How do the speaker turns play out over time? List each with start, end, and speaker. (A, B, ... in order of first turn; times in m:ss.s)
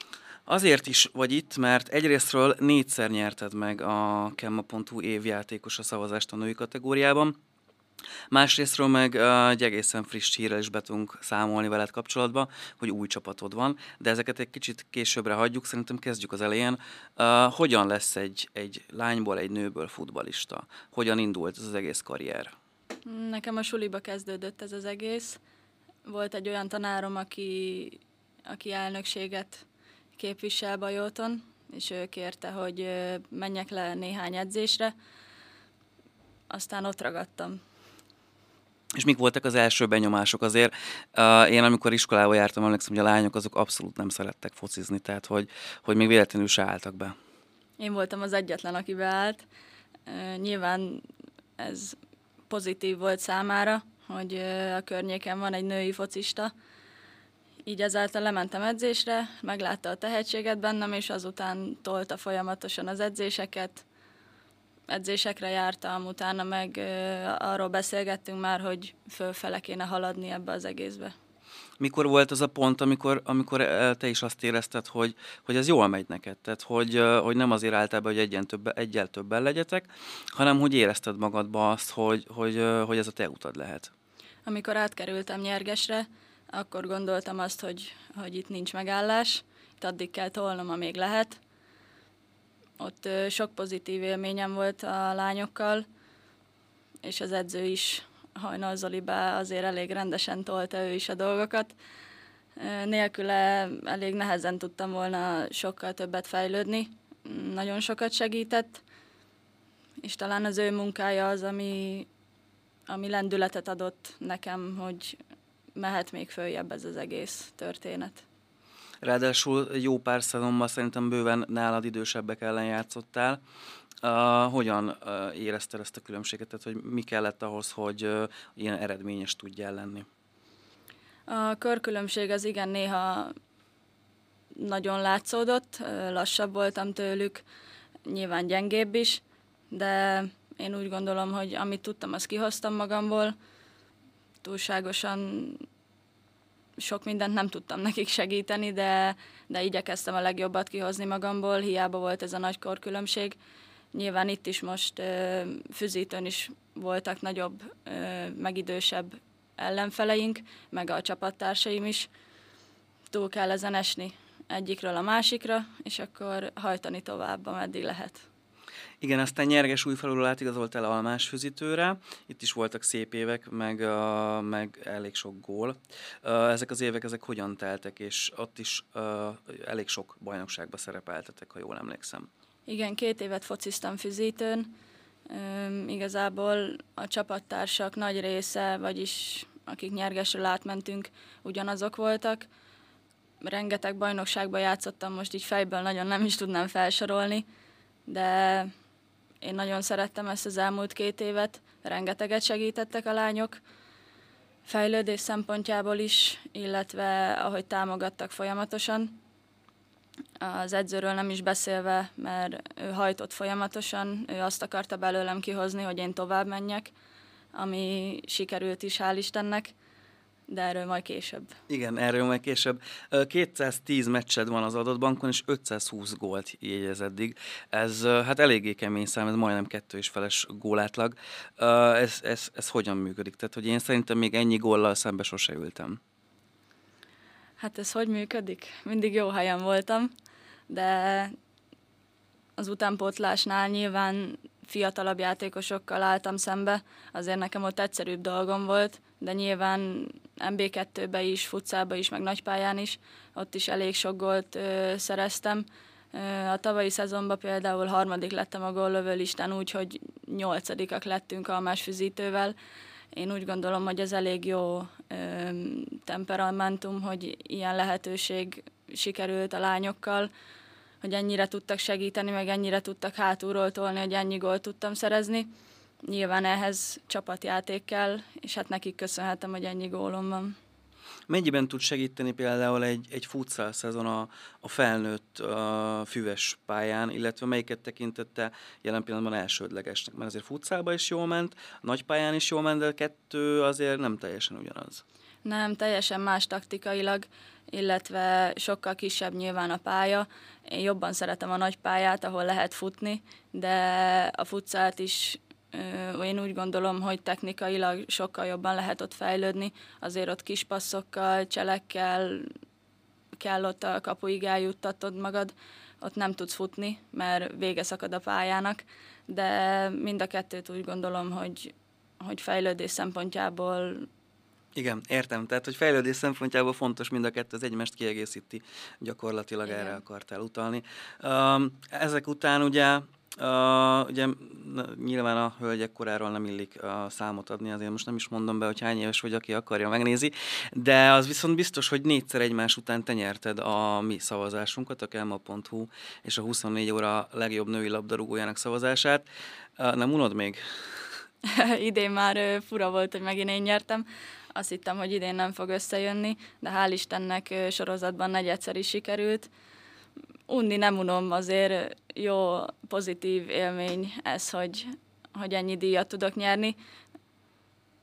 0:00.5-0:07.4 A
0:08.3-0:22.5 A
0:23.0-0:25.4 B
0:26.0-0:29.6 B
0:30.2-0:34.9 B
0:36.5-0:37.6 B
0:38.9-0:47.1 A
0:47.8-0:49.4 B
0:50.1-0:51.0 B
0:51.6-0:52.0 B
0:52.5-0:56.5 B
0:57.7-1:03.8 B
1:04.9-1:11.1 B
1:11.8-1:23.9 A
1:24.4-1:31.4 B
1:32.8-1:35.8 B
1:37.0-1:41.7 B
1:42.6-1:48.8 B
1:50.0-1:52.1 B
1:52.9-1:55.2 B
1:55.8-1:58.2 B
1:59.0-2:03.4 A
2:04.0-2:10.1 A
2:11.3-2:13.3 B
2:14.5-2:17.4 B
2:18.1-2:23.3 B
2:24.4-2:25.6 B
2:26.8-2:33.4 B
2:33.9-2:42.1 B
2:43.1-2:48.2 B
2:49.0-3:02.3 A
3:02.7-3:04.7 B
3:05.3-3:12.5 B
3:13.4-3:17.4 B
3:18.1-3:18.7 B
3:19.4-3:23.6 B
3:24.7-3:29.2 B
3:30.4-3:36.9 B
3:37.5-3:39.7 B
3:40.5-3:41.5 B
3:41.7-3:56.0 A
3:57.6-4:00.1 B
4:00.7-4:01.3 B
4:02.6-4:22.6 B
4:23.1-4:30.3 B
4:31.0-4:35.5 B
4:36.0-4:40.6 B
4:41.3-4:55.0 A
4:55.4-5:12.5 B
5:13.4-5:24.1 B
5:24.8-5:49.3 A
5:29.7-5:30.0 B
5:49.8-5:50.6 A
5:51.4-5:59.5 B
6:00.5-6:06.8 B